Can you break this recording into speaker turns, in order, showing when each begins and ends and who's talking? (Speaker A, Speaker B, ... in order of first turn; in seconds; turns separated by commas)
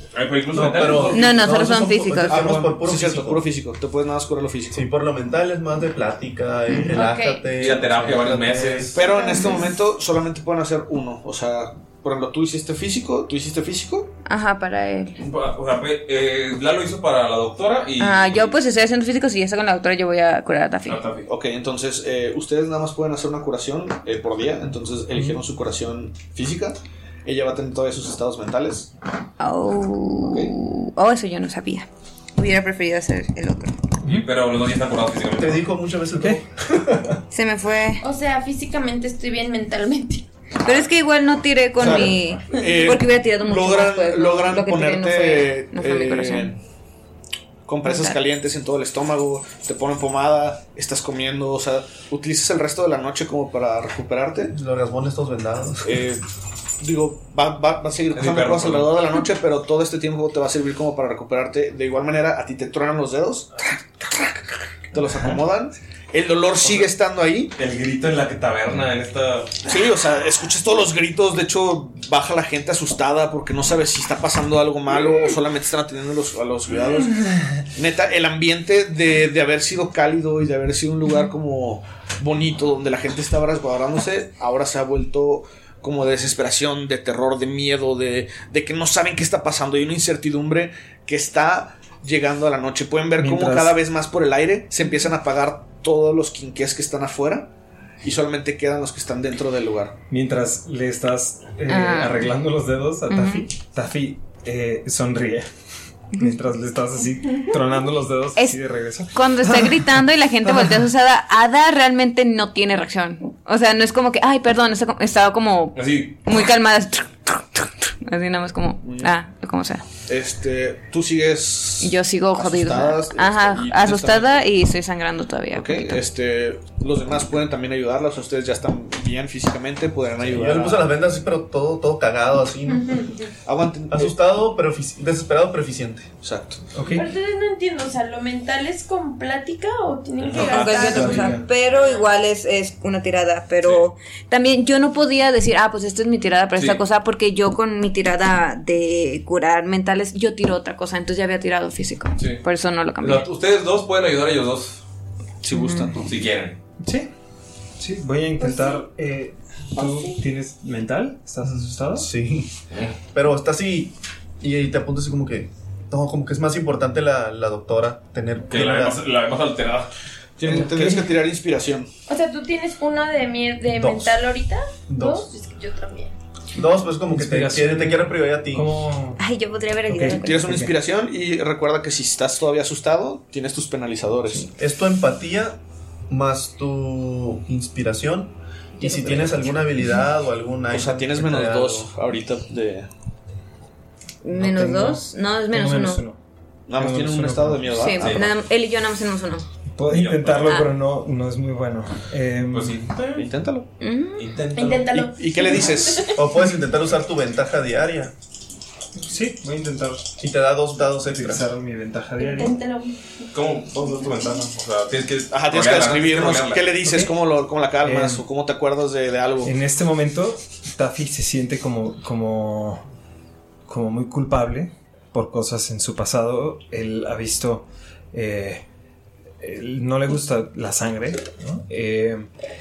Speaker A: 0.1-1.2, Speaker B: 0.5-3.5, Speaker C: 1.1-2.5, Speaker D: 2.3-4.9, Speaker B: 4.7-9.1, Speaker E: 6.9-7.6, Speaker A: 7.5-8.9, Speaker D: 8.9-14.1, Speaker E: 9.0-9.6, Speaker C: 9.3-9.7, Speaker C: 14.2-15.2, Speaker A: 15.2-18.6, Speaker C: 18.0-21.0, Speaker A: 20.9-21.2, Speaker D: 21.2-28.9, Speaker C: 29.4-33.8, Speaker A: 34.0-35.7, Speaker B: 35.4-37.2, Speaker F: 36.1-36.4, Speaker C: 37.3-38.0, Speaker E: 38.0-40.3, Speaker C: 40.6-46.5, Speaker D: 41.8-46.6, Speaker D: 47.6-54.5, Speaker C: 47.8-48.2, Speaker B: 54.5-55.9, Speaker D: 55.8-56.2, Speaker D: 56.8-63.5, Speaker A: 58.1-58.9, Speaker D: 64.9-67.5, Speaker A: 66.6-66.9, Speaker A: 67.6-69.5, Speaker D: 69.7-77.2, Speaker F: 77.2-77.5, Speaker D: 77.7-97.5, Speaker F: 93.2-93.8, Speaker D: 98.0-100.0, Speaker F: 100.1-105.5, Speaker C: 101.7-102.3, Speaker C: 103.1-103.5, Speaker F: 106.2-109.2, Speaker C: 109.1-119.8, Speaker A: 115.7-116.1, Speaker D: 118.8-119.1, Speaker D: 120.0-124.4, Speaker C: 121.8-126.0, Speaker D: 125.5-130.9, Speaker B: 130.3-133.1, Speaker E: 132.7-133.3, Speaker D: 133.4-134.1, Speaker B: 133.9-136.1, Speaker D: 136.2-136.6, Speaker F: 136.7-137.1, Speaker E: 136.9-142.1, Speaker A: 140.2-141.3, Speaker C: 140.3-153.2, Speaker F: 140.9-141.4, Speaker A: 146.5-146.8, Speaker A: 153.0-154.8, Speaker D: 155.4-156.1, Speaker C: 155.5-156.1, Speaker A: 156.0-156.6, Speaker F: 156.8-157.1, Speaker F: 157.8-162.1, Speaker E: 158.4-158.8, Speaker E: 159.7-160.2, Speaker B: 161.4-162.5, Speaker A: 162.7-163.0, Speaker B: 163.1-169.0, Speaker A: 168.5-169.9, Speaker D: 170.4-171.9, Speaker F: 170.5-171.1, Speaker E: 172.1-176.2, Speaker B: 173.7-174.2, Speaker B: 174.9-175.3, Speaker B: 176.5-178.7, Speaker F: 177.1-179.2, Speaker C: 179.2-180.7, Speaker F: 179.9-180.7, Speaker D: 180.0-184.5, Speaker B: 184.3-191.9, Speaker C: 188.8-189.5, Speaker D: 190.7-192.9, Speaker C: 194.2-196.0, Speaker F: 194.3-196.2, Speaker D: 196.7-198.3, Speaker F: 196.8-197.8, Speaker C: 197.7-199.4, Speaker A: 198.0-198.2, Speaker F: 199.7-202.9, Speaker A: 199.9-200.6, Speaker A: 202.5-203.3, Speaker D: 203.1-203.7, Speaker C: 203.8-204.4, Speaker A: 204.1-205.1, Speaker E: 204.5-206.2, Speaker D: 205.1-206.1, Speaker B: 206.1-208.1, Speaker F: 209.0-210.1, Speaker B: 210.2-211.5, Speaker F: 211.1-212.6, Speaker E: 212.2-212.9, Speaker A: 213.3-216.7, Speaker D: 215.3-219.5, Speaker F: 216.8-217.1, Speaker F: 217.8-218.2, Speaker F: 219.4-222.8, Speaker F: 223.7-228.6, Speaker F: 229.4-232.3